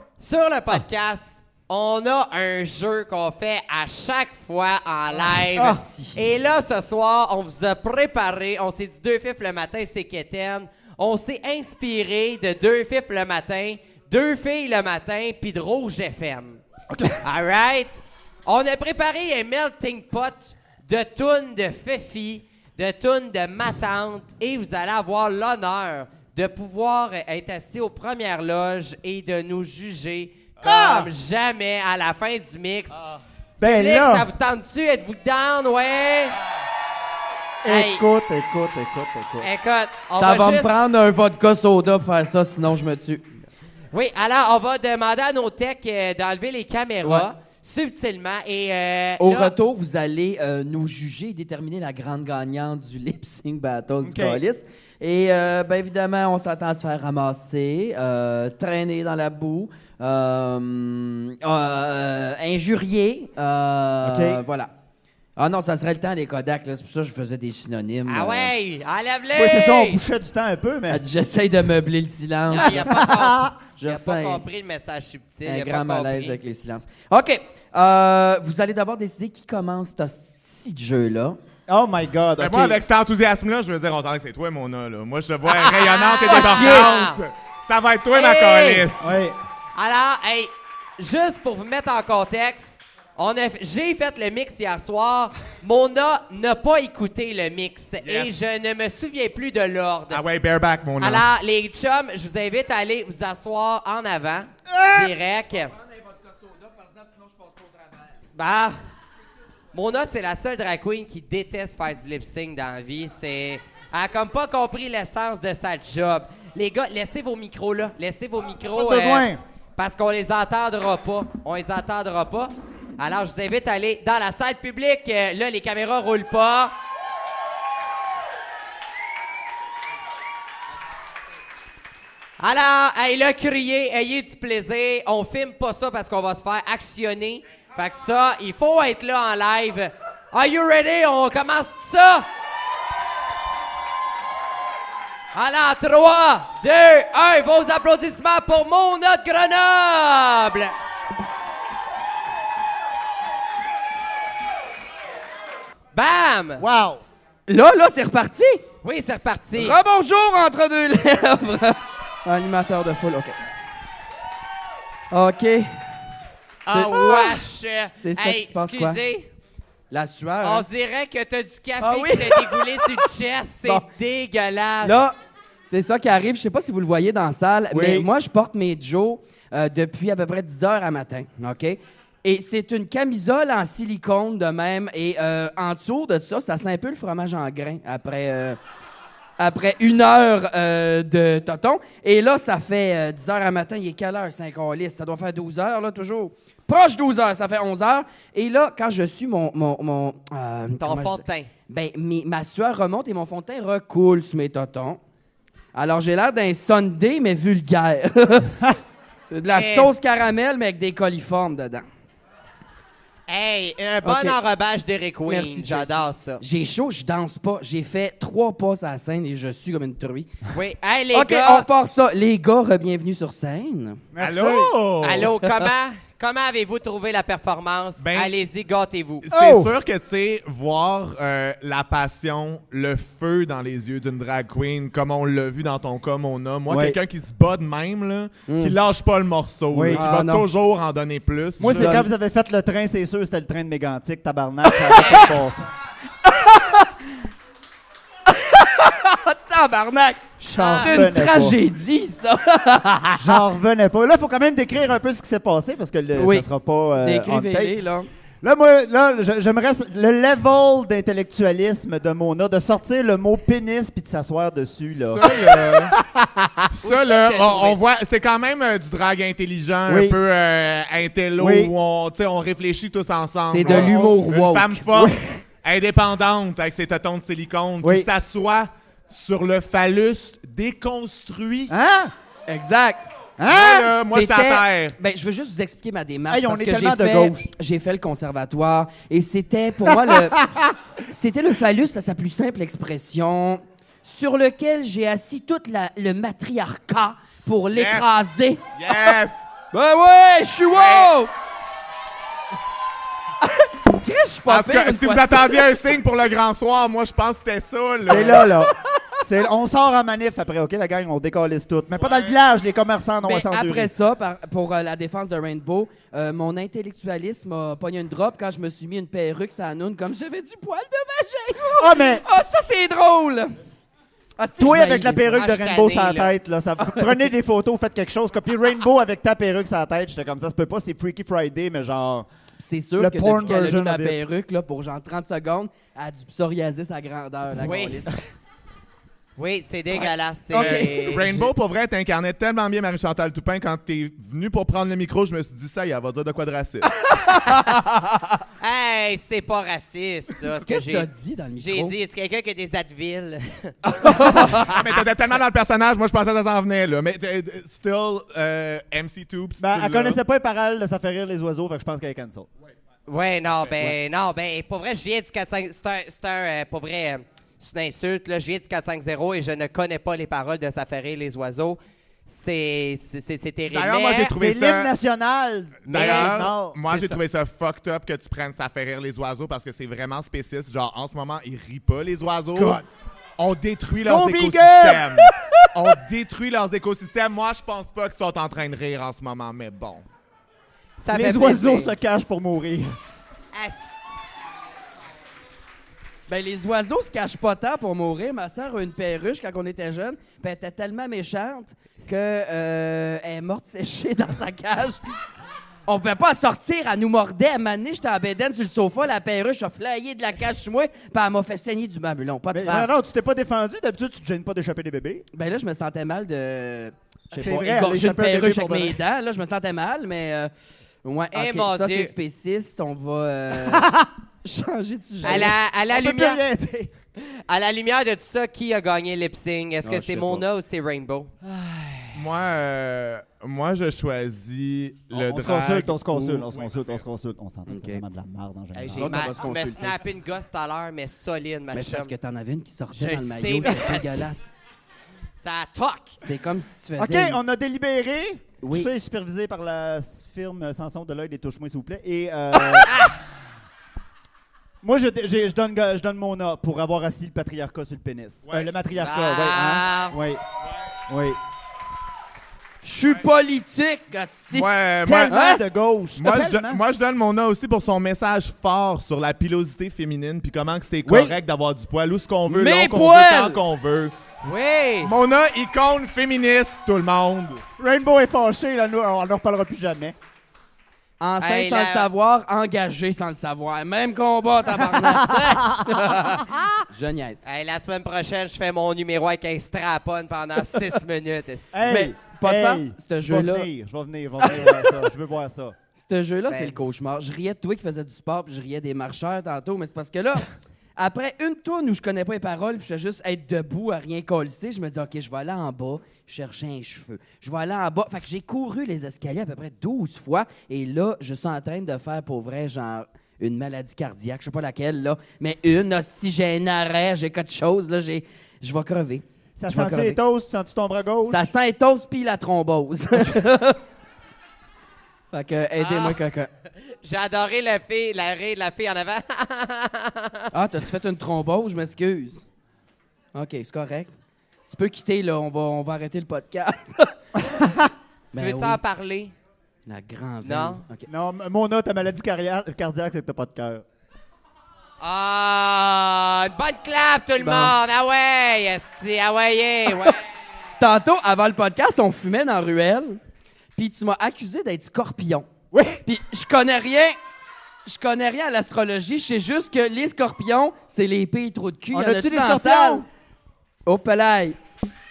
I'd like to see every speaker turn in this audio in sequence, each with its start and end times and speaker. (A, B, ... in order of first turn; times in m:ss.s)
0:00.2-0:16.6 A
0:05.6-0:05.8 B
0:05.6-0:06.2 C
0:17.2-0:33.0 A
0:30.6-0:31.1 B
0:33.6-0:34.3 B
0:33.6-0:36.4 A
0:37.6-0:39.5 B
0:37.7-0:38.0 A
0:39.4-0:40.8 A
0:40.2-0:43.3 C
0:43.9-0:49.5 A
0:47.0-0:47.3 C
0:49.2-1:04.7 C
0:54.0-0:54.4 B
1:04.0-1:04.4 B
1:05.4-1:08.5 C
1:08.1-1:10.0 A
1:09.3-1:11.0 B
1:10.9-1:13.1 C
1:12.5-1:16.4 A
1:12.8-1:13.6 B
1:13.8-1:14.4 C
1:15.4-1:21.4 C
1:21.7-1:22.8 B
1:22.4-1:29.1 D
1:25.5-1:27.2 A
1:26.2-1:26.9 C
1:28.1-1:28.9 A
1:29.0-1:29.4 B
1:29.8-1:40.2 A
1:38.0-1:38.3 D
1:40.1-1:41.2 D
1:41.0-1:45.7 A
1:44.7-1:45.1 B
1:48.4-1:48.8 A
1:49.7-2:06.7 A
1:58.8-1:59.4 B
2:12.4-2:22.3 A
2:25.3-2:30.7 A
2:35.9-2:36.6 A
2:36.6-2:37.0 B
2:37.5-2:38.6 C
2:38.8-2:39.8 A
2:39.6-2:43.4 C
2:45.1-2:45.8 C
2:46.7-2:49.3 A
2:46.7-2:47.4 C
2:48.0-2:49.0 C
2:49.9-2:50.7 C
2:50.4-2:55.0 A
2:51.8-2:53.1 C
2:54.8-2:55.2 C
2:55.7-3:08.6 C
2:57.7-2:58.1 B
3:09.4-3:25.0 C
3:20.8-3:21.5 A
3:25.7-3:28.6 C
3:29.3-3:31.9 C
3:29.5-3:30.0 A
3:33.3-3:36.4 A
3:34.0-3:34.4 C
3:35.3-3:40.3 C
3:40.5-3:41.7 A
3:41.1-3:44.0 C
3:44.1-3:44.8 B
3:44.2-3:45.4 D
3:45.0-3:49.3 A
3:48.0-3:48.4 D
3:49.2-4:02.0 D
3:49.3-3:49.7 B
3:56.7-3:57.0 B
3:58.5-3:58.8 C
3:59.7-4:00.1 B
3:59.9-4:00.5 C
4:01.6-4:02.1 C
4:01.6-4:05.7 B
4:04.8-4:05.3 C
4:05.0-4:05.3 A
4:06.2-4:07.0 C
4:08.3-4:10.2 C
4:10.4-4:11.6 B
4:10.5-4:11.0 A
4:10.8-4:13.4 C
4:13.2-4:17.8 B
4:16.2-4:16.5 C
4:17.0-4:18.1 C
4:18.4-4:25.5 B
4:25.1-4:26.0 D
4:26.7-4:41.7 D
4:26.8-4:27.8 A
4:29.9-4:30.2 B
4:31.4-4:31.7 B
4:33.5-4:34.9 C
4:33.6-4:34.2 B
4:34.9-4:35.4 B
4:37.8-4:38.1 B
4:41.7-4:42.1 B
4:42.5-4:43.0 C
4:43.4-4:43.9 B
4:43.5-4:45.0 D
4:44.0-4:50.5 C
4:46.3-4:47.5 B
4:49.9-4:50.7 B
4:51.1-4:59.1 C
4:57.7-4:58.1 D
4:58.8-4:59.4 D
4:59.7-5:01.3 C
5:00.7-5:01.1 D
5:03.4-5:05.6 C
5:04.5-5:08.5 D
5:08.0-5:13.9 B
5:08.1-5:09.0 C
5:12.0-5:12.3 D
5:13.2-5:23.6 C
5:21.8-5:22.2 B
5:24.4-5:25.4 C
5:24.5-5:32.3 B
5:25.3-5:26.3 A
5:26.8-5:27.2 C
5:32.6-5:38.1 C
5:33.0-5:34.2 B
5:37.6-5:38.0 A
5:39.4-5:41.4 A
5:40.5-5:41.5 C
5:40.5-5:47.0 D
5:47.0-5:47.6 C
5:48.6-5:51.1 A
5:50.6-5:52.0 C
5:51.6-5:54.8 A
5:53.9-5:54.8 C
5:54.2-6:00.2 D
5:59.6-6:02.5 B
6:03.1-6:14.3 A
6:13.7-6:14.9 D
6:14.3-6:17.0 B
6:15.9-6:17.2 A
6:15.9-6:22.8 D
6:22.6-6:22.9 B
6:23.4-6:30.0 D
6:24.0-6:25.3 B
6:31.0-6:31.9 A
6:31.1-6:33.0 B
6:33.5-6:33.8 A
6:36.3-6:45.0 C
6:45.9-6:53.0 C
6:52.5-6:55.3 B
6:55.3-7:00.5 C
6:57.3-6:59.0 B
7:01.0-7:03.9 C
7:01.3-7:02.1 A
7:03.6-7:04.1 B
7:04.4-7:05.5 C
7:05.2-7:06.9 B
7:05.2-7:06.4 A
7:07.2-7:11.3 A
7:09.8-7:10.4 C
7:11.5-7:12.0 B
7:12.1-7:16.9 D
7:15.1-7:19.3 B
7:17.7-7:18.0 C
7:18.8-7:22.1 A
7:18.9-7:20.0 C
7:21.7-7:24.4 C
7:22.9-7:24.3 A
7:25.4-7:26.2 A
7:26.2-7:27.4 C
7:27.0-7:33.1 B
7:28.6-7:28.9 C
7:34.8-7:40.4 B
7:39.0-7:40.2 A
7:41.1-7:41.4 B
7:42.8-7:44.7 C
7:44.5-7:45.4 D
7:45.0-7:46.8 B
7:45.3-7:45.6 C
7:46.2-7:54.1 D
7:51.0-7:51.4 B
7:52.5-7:53.6 C
7:54.4-7:55.1 A
7:55.0-7:57.6 D
7:57.8-8:00.2 B
8:01.2-8:07.4 C
8:01.4-8:02.1 A
8:04.8-8:06.8 B
8:07.4-8:11.8 A
8:11.7-8:15.8 B
8:11.8-8:13.7 C
8:14.4-8:14.9 C
8:16.0-8:40.2 C
8:16.5-8:16.8 A
8:39.6-8:41.5 B
8:41.3-8:43.8 C
8:45.3-8:46.5 C
8:45.8-8:46.2 A
8:46.8-8:50.5 A
8:50.5-8:52.4 C
8:53.3-8:54.1 C
8:54.7-8:57.1 C
8:57.4-8:57.9 B
8:58.3-8:58.8 C
8:58.3-8:59.3 A
8:59.9-9:01.1 C
9:00.4-9:00.8 A
9:01.1-9:03.8 B
9:05.0-9:10.2 A
9:07.4-9:07.8 C
9:10.8-9:13.2 C
9:13.8-9:15.5 C
9:15.7-9:16.0 B
9:16.0-9:17.2 C
9:17.9-9:23.1 C
9:21.9-9:23.1 B
9:23.8-9:24.6 C